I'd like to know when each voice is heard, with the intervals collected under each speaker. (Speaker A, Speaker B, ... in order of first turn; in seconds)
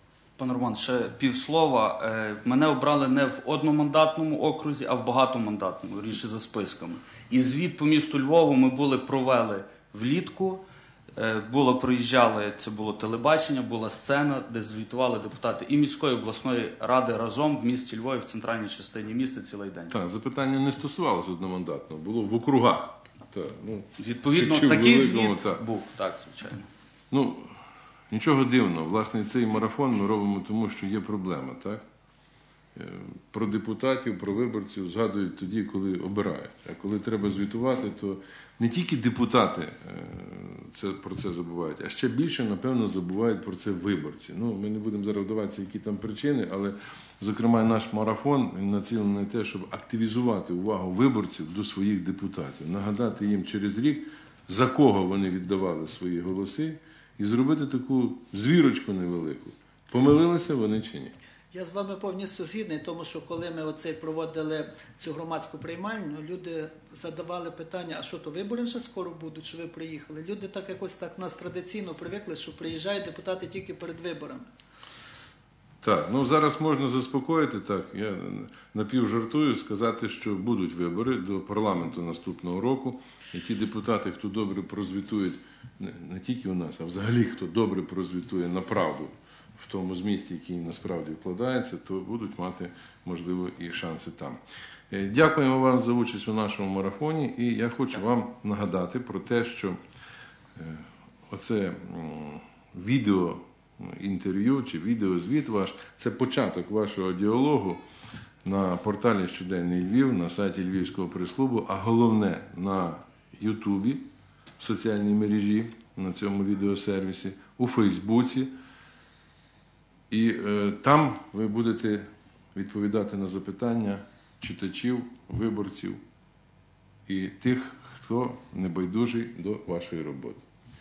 Speaker A: 0.4-10.6, 11.1-19.9, 24.0-26.7
Speaker B: 19.9-25.6, 27.1-31.8, 32.7-61.1, 75.8-99.8, 100.5-107.8, 108.4-114.1, 114.6-118.5, 120.1-126.0, 127.1-130.4
Speaker C: 61.5-74.5